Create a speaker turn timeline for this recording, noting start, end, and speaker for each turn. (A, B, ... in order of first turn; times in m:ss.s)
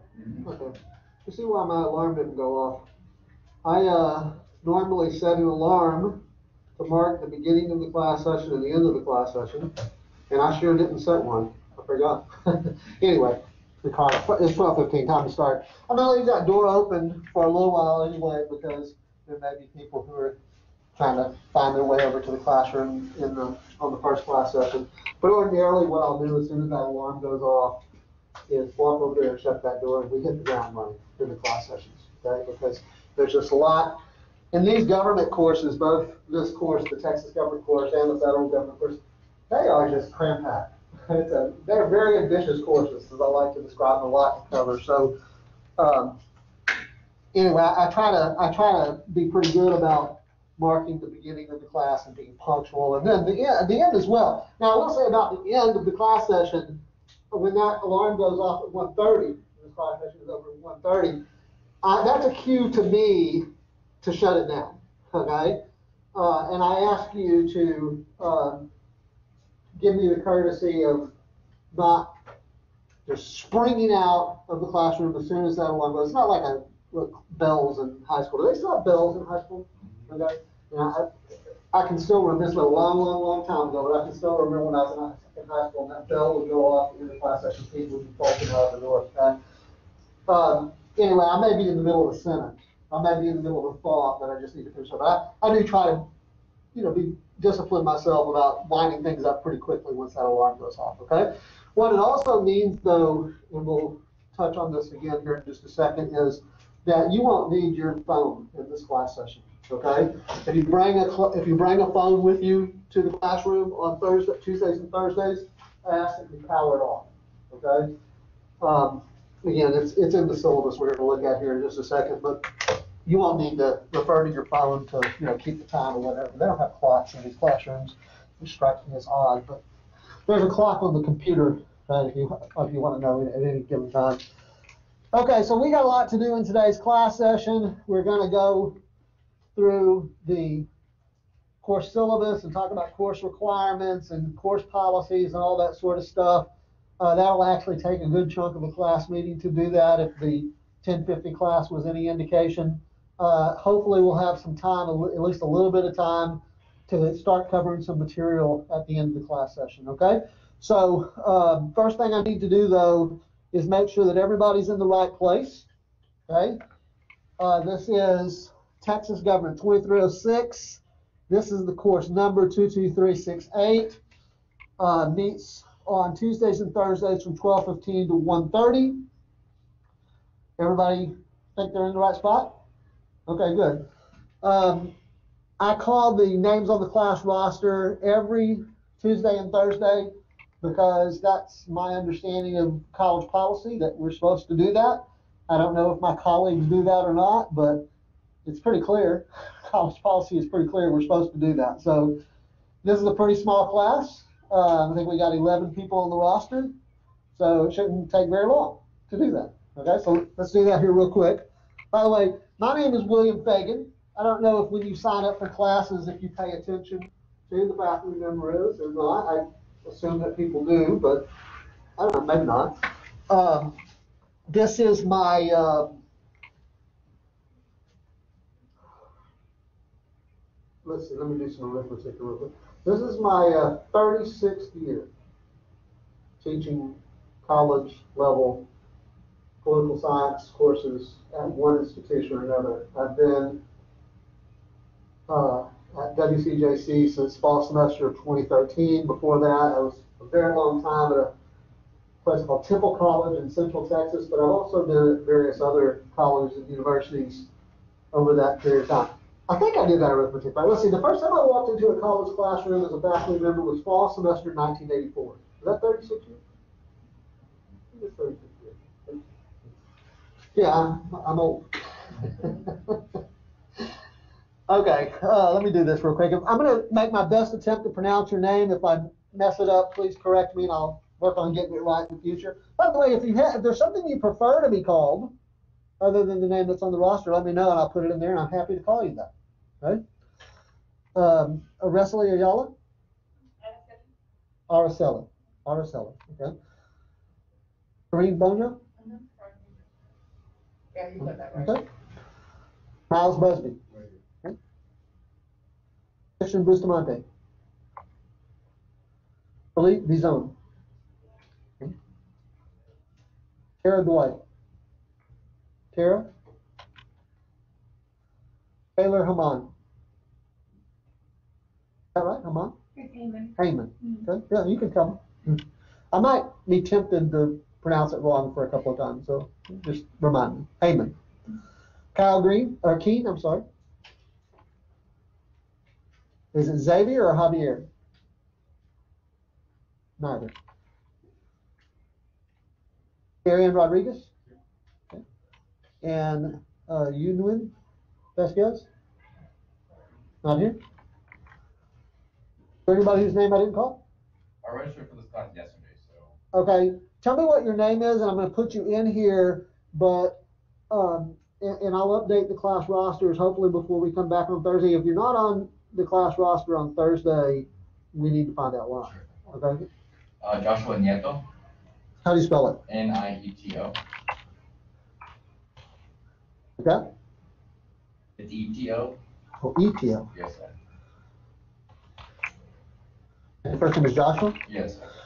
0:00.4-0:02.8 A
0:03.6-0:06.2 A
0:06.8-0:09.7 A
0:10.3-0:20.4 A
0:21.0-0:27.8 A
0:28.5-0:34.0 A
0:34.5-0:45.2 A
0:45.8-0:46.2 A
0:47.3-1:01.2 A
1:01.8-1:03.4 A
1:04.0-1:05.6 A
1:06.1-1:08.6 A
1:09.8-1:11.1 A
1:11.7-1:12.1 A
1:13.0-1:21.1 A
1:21.7-1:29.4 A
1:30.3-1:36.1 A
1:36.7-1:57.9 A
1:58.6-2:09.6 A
2:10.3-2:14.2 A
2:15.1-2:18.8 A
2:19.5-2:20.7 A
2:21.6-2:26.5 A
2:27.0-2:45.6 A
2:46.3-2:46.6 A
2:47.4-2:54.0 A
2:54.8-2:59.0 A
3:00.6-3:02.6 A
3:03.3-3:03.8 A
3:04.4-3:04.9 A
3:05.6-3:10.1 A
3:10.6-3:17.8 A
3:18.4-3:22.2 A
3:22.8-3:26.7 A
3:27.3-3:41.3 A
3:42.0-3:43.7 A
3:44.5-3:46.0 A
3:50.8-3:55.1 A
3:56.4-3:58.6 A
3:59.6-4:03.6 A
4:05.3-4:11.3 A
4:12.2-4:17.5 A
4:18.1-4:26.4 A
4:27.9-4:29.2 A
4:30.5-4:33.0 A
4:34.7-4:45.3 A
4:46.0-4:49.3 A
4:51.1-4:52.7 A
4:53.6-4:54.0 B
4:54.7-4:56.5 A
4:58.1-4:58.8 A
4:59.0-4:59.8 B
5:00.9-5:01.8 B
5:01.2-5:01.8 A
5:03.1-5:03.8 A
5:06.4-5:07.2 A
5:09.7-5:10.5 A
5:13.8-5:14.4 A
5:15.9-5:16.3 A
5:19.0-5:19.7 A
5:22.1-5:22.8 A
5:23.1-5:23.4 B
5:23.6-5:31.1 A
5:32.1-5:33.6 A
5:36.5-5:37.9 A
5:40.2-5:40.5 A
5:43.4-5:44.3 A
5:46.0-5:47.7 A
5:48.4-5:48.8 A
5:50.4-5:50.8 A
5:52.9-5:54.0 A
5:54.6-5:56.3 C
5:56.5-6:09.8 A
6:10.4-6:11.4 C
6:12.2-6:12.8 A
6:12.9-6:14.0 C
6:16.8-6:17.0 A
6:18.4-6:19.2 C
6:19.6-6:20.2 A
6:20.3-6:20.7 C
6:23.6-6:24.6 A
6:24.6-6:25.0 C